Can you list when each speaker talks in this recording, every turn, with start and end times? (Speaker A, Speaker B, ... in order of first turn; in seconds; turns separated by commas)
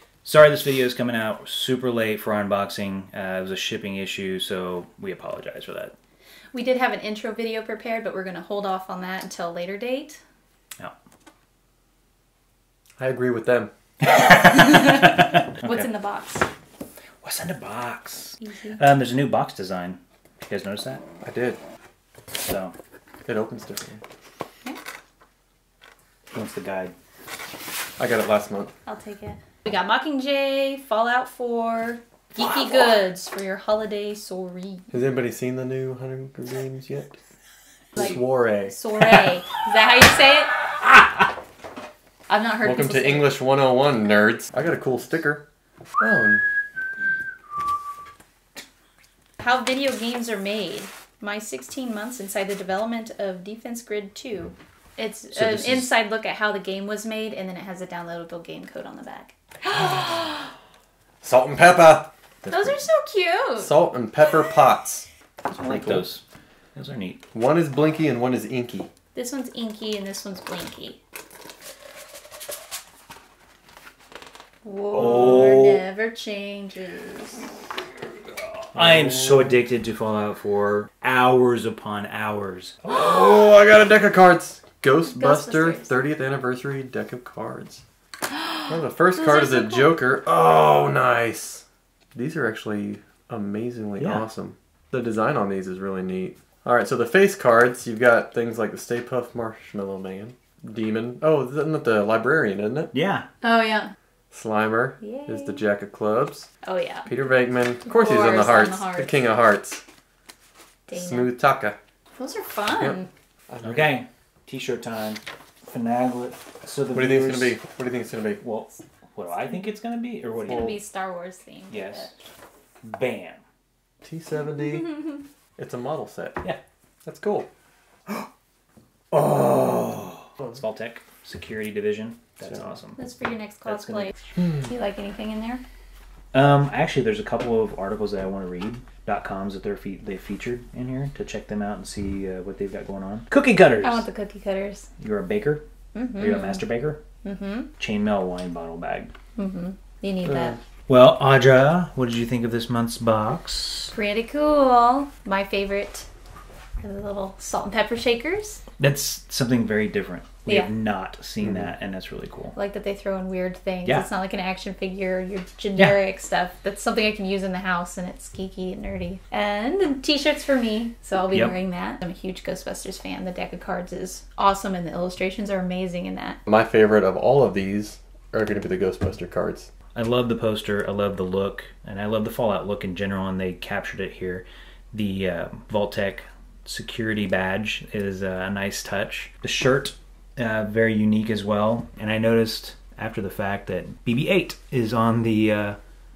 Speaker A: 0.2-5.9, Speaker B: 6.5-10.2, Speaker C: 13.0-13.7, Speaker A: 14.0-15.8, Speaker B: 14.4-16.4, Speaker A: 17.2-21.0, Speaker B: 18.4-18.8, Speaker C: 21.2-21.6, Speaker A: 22.4-22.7, Speaker C: 23.2-24.0, Speaker A: 26.3-26.9, Speaker C: 28.0-28.7, Speaker B: 28.9-34.9, Speaker C: 34.9-37.2, Speaker C: 38.0-38.7, Speaker B: 38.0-40.6, Speaker B: 42.3-43.3, Speaker C: 42.6-45.4, Speaker C: 46.0-46.4, Speaker B: 49.4-60.5, Speaker A: 55.3-55.9, Speaker C: 61.2-62.1, Speaker A: 62.4-62.7, Speaker B: 62.5-63.7, Speaker C: 63.6-66.1, Speaker A: 65.5-66.2, Speaker A: 66.7-67.2, Speaker C: 67.3-68.9, Speaker B: 69.1-71.0, Speaker B: 74.6-77.5, Speaker A: 74.9-75.8, Speaker C: 78.7-79.6, Speaker A: 78.7-82.8, Speaker C: 82.8-87.8, Speaker B: 85.1-86.0, Speaker B: 88.3-89.9, Speaker C: 88.7-102.9, Speaker A: 94.0-94.2, Speaker A: 102.9-103.3, Speaker B: 103.4-103.9, Speaker C: 104.3-106.5, Speaker B: 105.0-105.6, Speaker B: 106.6-107.1, Speaker C: 107.1-109.8, Speaker B: 107.8-109.2, Speaker B: 110.9-111.3, Speaker C: 110.9-111.8, Speaker B: 112.2-113.1, Speaker C: 112.8-114.0, Speaker A: 113.6-117.6, Speaker C: 116.9-118.4, Speaker A: 118.4-120.8, Speaker B: 120.5-122.1, Speaker C: 120.5-120.8, Speaker A: 121.7-122.1, Speaker A: 122.8-123.4, Speaker C: 124.0-126.4, Speaker C: 127.0-127.5, Speaker A: 129.1-133.0, Speaker B: 133.0-135.6, Speaker A: 133.6-134.1, Speaker A: 136.3-144.1, Speaker B: 143.8-144.9, Speaker A: 145.0-147.0, Speaker B: 145.9-146.6, Speaker B: 147.2-147.7, Speaker A: 147.8-149.1, Speaker B: 149.3-150.6, Speaker A: 150.9-153.9, Speaker B: 153.9-156.1, Speaker B: 156.8-158.6, Speaker A: 158.8-162.5, Speaker B: 162.5-176.4, Speaker A: 165.8-166.0, Speaker C: 176.4-179.7, Speaker A: 179.9-195.8